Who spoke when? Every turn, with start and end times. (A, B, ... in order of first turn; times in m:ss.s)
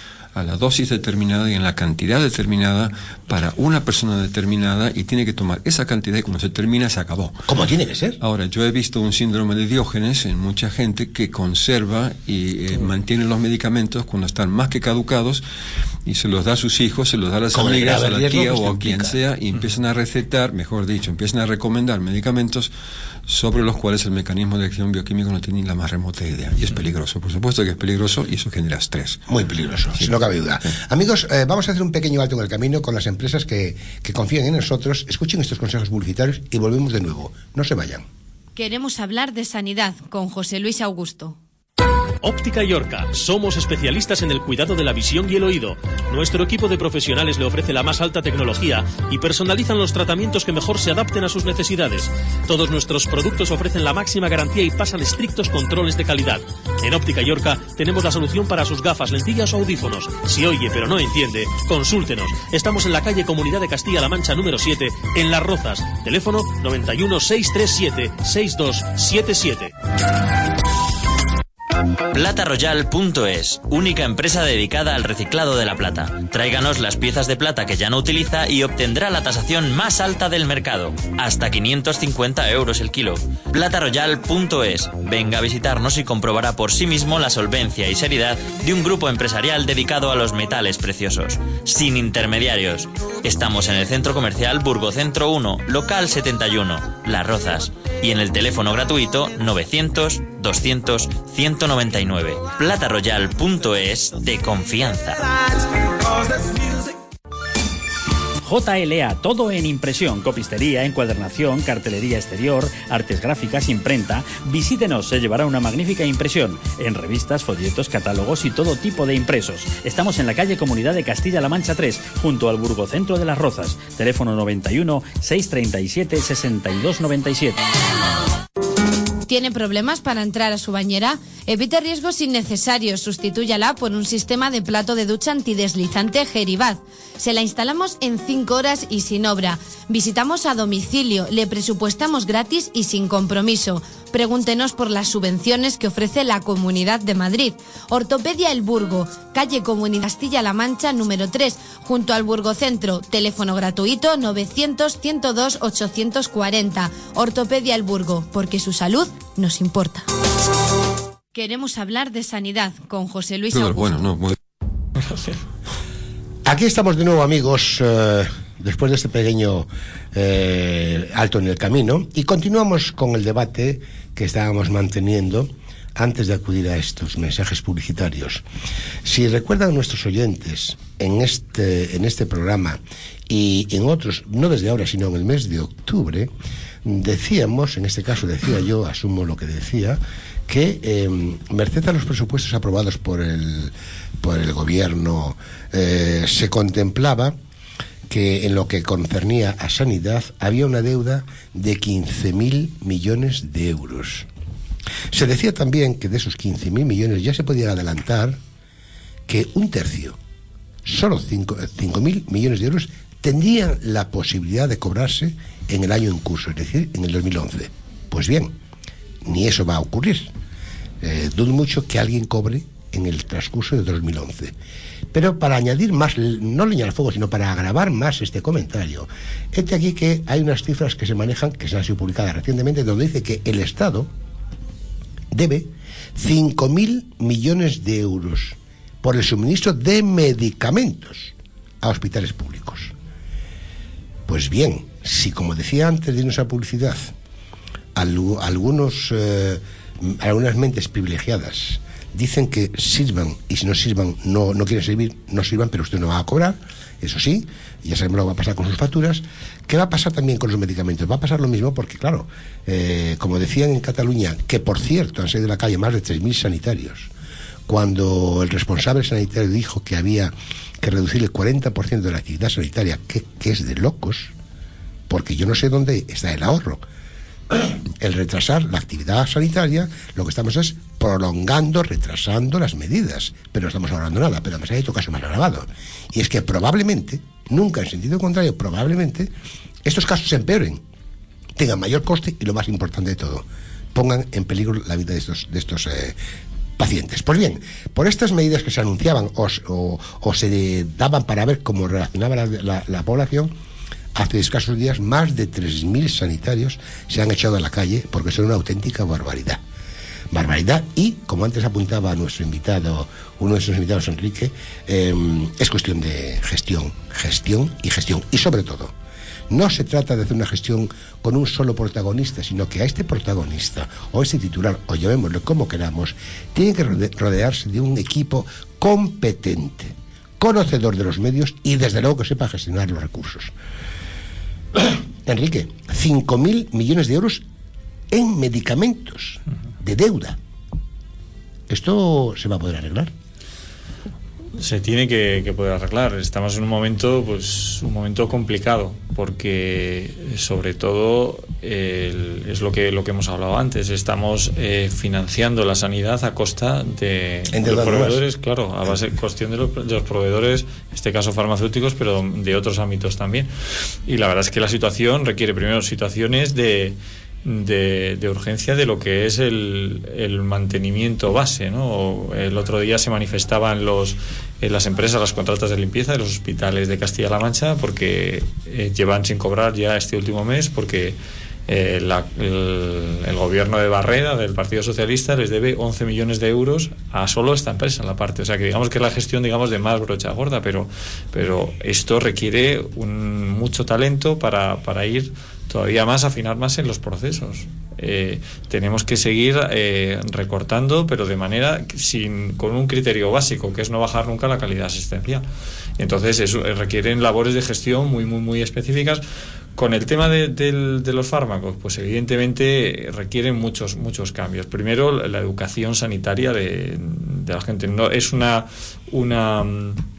0:00.4-0:07.4 A
0:07.5-0:08.2 B
0:08.2-0:15.4 A
0:16.1-0:22.7 A
0:17.5-0:19.2 B
0:23.3-0:29.2 A
0:29.3-0:38.1 B
0:38.6-0:41.4 C
0:42.2-1:09.7 D
1:12.1-1:45.2 E
1:48.4-2:07.6 F
2:09.3-2:40.1 C
2:41.3-2:44.1 C
2:43.5-2:44.4 A
2:45.1-2:45.4 G
2:46.4-2:58.4 B
2:59.0-3:06.3 B
3:06.8-3:17.4 B
3:18.1-3:24.3 B
3:25.1-3:28.4 B
3:29.3-3:30.2 B
3:30.8-3:38.5 B
3:39.2-3:40.3 B
3:41.0-3:44.6 B
3:45.1-3:54.1 B
3:55.3-4:02.9 B
4:04.3-4:07.1 B
4:08.0-4:27.1 B
4:27.7-4:34.3 B
4:35.1-4:36.8 B
4:37.5-4:49.3 B
4:49.8-4:50.8 B
4:51.6-4:56.2 B
4:56.8-5:03.5 B
5:04.2-5:09.6 B
5:10.3-5:18.9 B
5:19.5-5:33.5 B
5:34.7-5:37.4 B
5:38.1-5:40.4 B
5:41.7-5:43.1 B
5:44.6-6:03.5 G
5:57.5-5:58.2 B
6:04.1-6:45.4 G
6:46.0-6:49.2 G
6:49.8-7:00.0 G